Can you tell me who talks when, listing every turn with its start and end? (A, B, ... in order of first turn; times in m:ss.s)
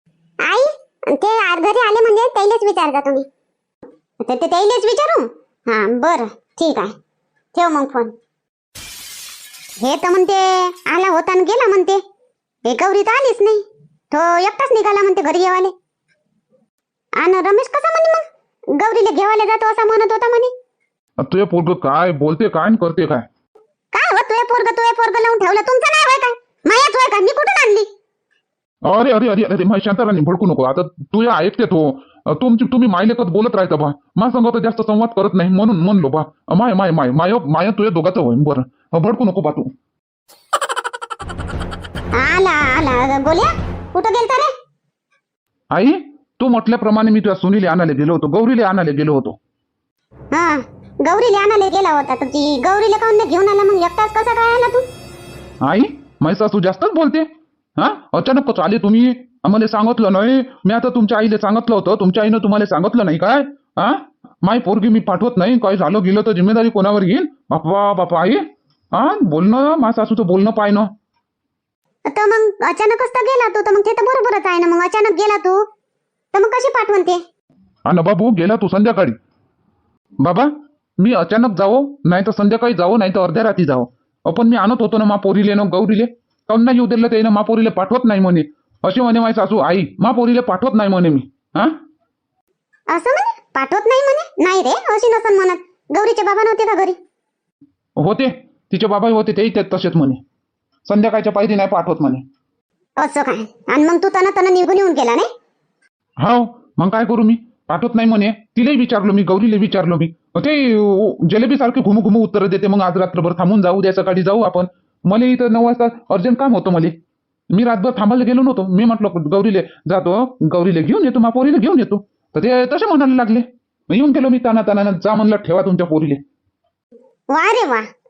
0:00.4-0:03.2 A
0:04.2-0:06.9 A
0:07.5-0:08.1 A
0:09.8-0:12.0 A
0:12.6-0:15.7 A
0:17.2-0:18.2 A
0:18.8-0:20.5 A
0:21.2-0:23.2 B
0:23.9-0:27.9 A
0:28.8-0:39.7 B
0:42.1-0:44.5 A
0:45.7-0:49.4 B
0:50.3-0:54.8 A
0:55.6-0:57.2 B
0:57.8-1:10.9 B
1:12.1-1:15.6 A
1:16.3-1:17.2 A
1:17.8-1:19.2 B
1:20.2-1:31.8 B
1:32.9-1:37.0 A
1:38.0-1:40.2 B
1:40.8-1:42.2 B
1:43.0-1:45.3 A
1:46.2-1:56.9 B
1:57.5-2:06.2 B
2:07.3-2:07.8 A